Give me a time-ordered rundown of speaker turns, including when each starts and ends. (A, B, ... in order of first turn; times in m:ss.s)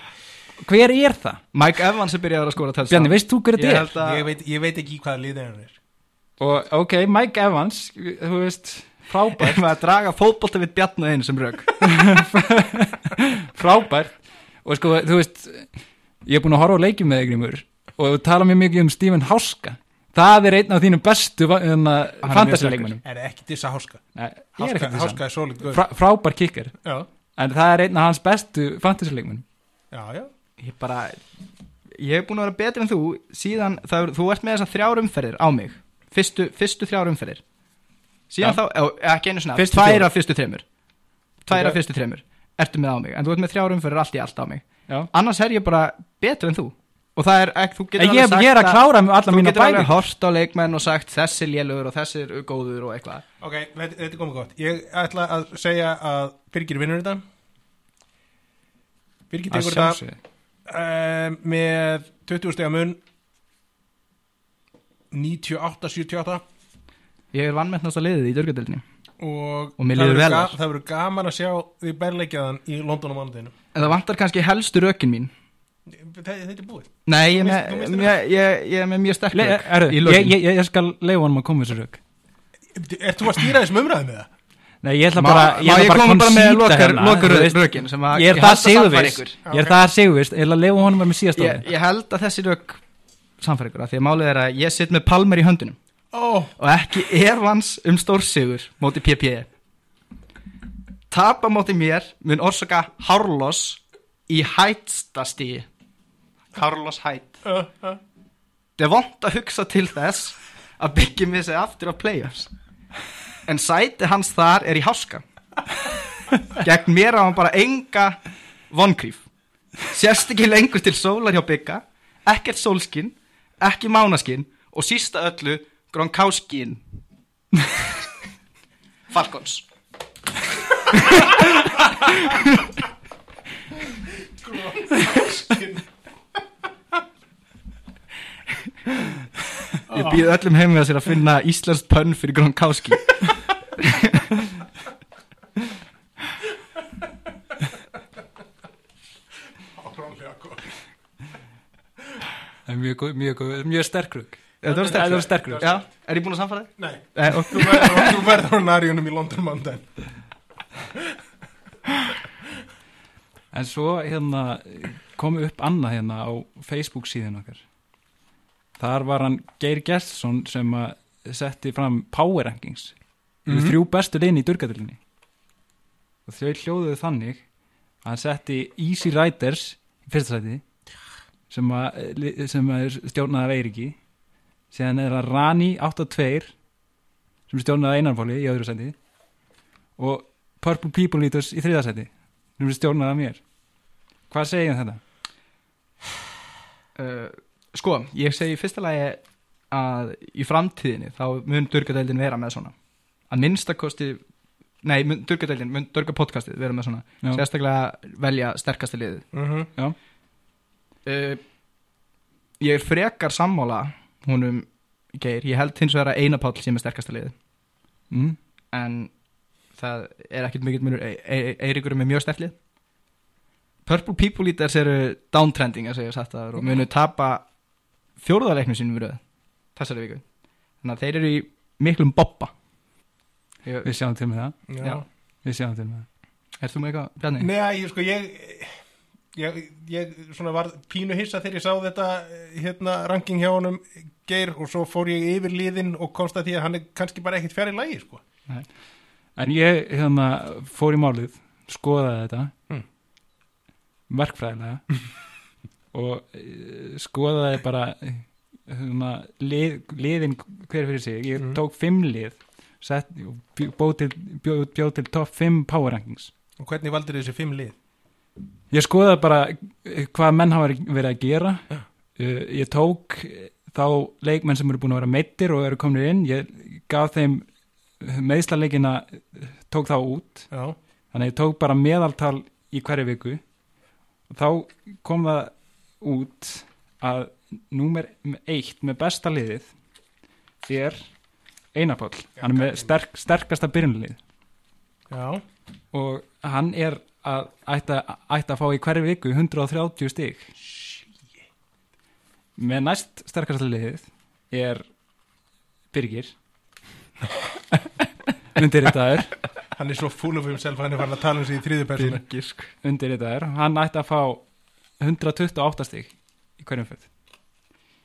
0:00.6-0:01.4 A
0:01.5-0:04.2 B
0:02.9-0:03.9 A
0:04.0-0:05.8 C
0:06.4-0:09.6 A
0:09.4-0:12.2 B
0:11.8-0:15.7 A
0:16.2-0:23.0 A
0:22.2-0:23.0 B
0:23.0-0:24.0 C
0:24.2-0:26.8 A
0:24.6-0:25.8 C
0:27.4-0:29.4 A
0:29.9-0:30.3 C
0:30.6-0:31.2 B
0:32.0-0:37.4 B
0:38.3-0:40.6 B
0:39.6-0:40.1 A
0:41.4-0:53.2 B
0:41.5-0:41.8 A
0:48.0-0:50.0 A
0:53.4-0:57.2 C
0:59.3-1:00.0 C
0:59.5-1:00.2 A
1:00.7-1:03.0 C
1:05.1-1:06.4 C
1:07.3-1:08.8 B
1:09.2-1:13.6 C
1:09.8-1:10.6 B
1:13.7-1:15.3 B
1:15.9-1:18.2 C
1:17.1-1:20.4 B
1:19.3-1:22.0 A
1:22.7-1:24.3 C
1:24.8-1:31.7 A
1:25.2-1:29.4 B
1:29.5-1:29.8 C
1:31.4-1:32.8 B
1:33.4-1:35.8 B
1:36.1-1:36.5 C
1:36.6-1:39.5 B
1:41.1-1:45.7 B
1:46.5-1:47.4 B
1:47.4-1:48.0 C
1:48.8-1:52.5 B
1:53.5-1:55.2 B
1:56.5-1:58.2 B
1:58.7-1:59.3 B
1:59.9-2:06.8 B
2:09.1-2:09.6 B
2:10.9-2:12.6 B
2:14.1-2:15.9 C
2:19.9-2:20.2 C
2:19.9-2:23.2 B
2:23.8-2:24.4 B
2:29.7-2:30.7 C
2:32.7-2:35.7 A
2:34.6-2:38.2 B
2:34.6-2:35.9 C
2:36.8-2:39.9 C
2:43.5-2:47.6 A
2:48.8-2:53.0 A
2:53.5-2:53.8 C
2:53.5-2:55.0 A
2:56.3-2:57.4 A
2:58.0-3:00.6 A
3:01.5-3:04.0 A
3:04.7-3:06.5 A
3:07.5-3:09.0 A
3:10.0-3:13.4 A
3:14.3-3:15.0 A
3:17.0-3:22.7 B
3:23.3-3:24.2 B
3:24.8-3:29.2 B
3:29.3-3:29.7 C
3:31.1-3:31.4 B
3:32.6-3:37.3 B
3:38.1-3:38.4 A
3:38.7-3:39.1 B
3:39.7-3:42.6 B
3:43.9-3:47.5 B
3:48.2-3:49.2 B
3:49.8-3:50.2 B
3:50.8-3:52.5 B
3:53.6-3:53.9 B
3:53.8-3:54.7 A
3:54.7-3:55.0 C
3:55.4-3:56.1 A
3:56.6-3:57.5 B
3:57.4-3:58.8 C
3:59.3-4:08.2 C
4:09.4-4:12.5 A
4:14.1-4:14.9 A
4:15.9-4:26.3 A
4:26.6-4:27.8 C
4:28.7-4:31.6 A
4:32.2-4:37.5 A
4:38.0-4:40.5 A
4:40.5-4:40.8 C
4:41.1-4:43.4 A
4:44.3-4:49.7 A
4:50.6-4:51.0 A
4:51.7-4:54.2 A
4:52.4-4:52.9 C
4:55.1-4:55.4 C
4:55.9-5:00.5 A
5:00.6-5:01.4 C
5:02.6-5:04.8 A
5:05.9-5:06.3 A
5:08.6-5:09.4 A
5:09.8-5:12.2 C
5:12.0-5:12.7 B
5:12.8-5:14.4 A
5:15.0-5:17.1 A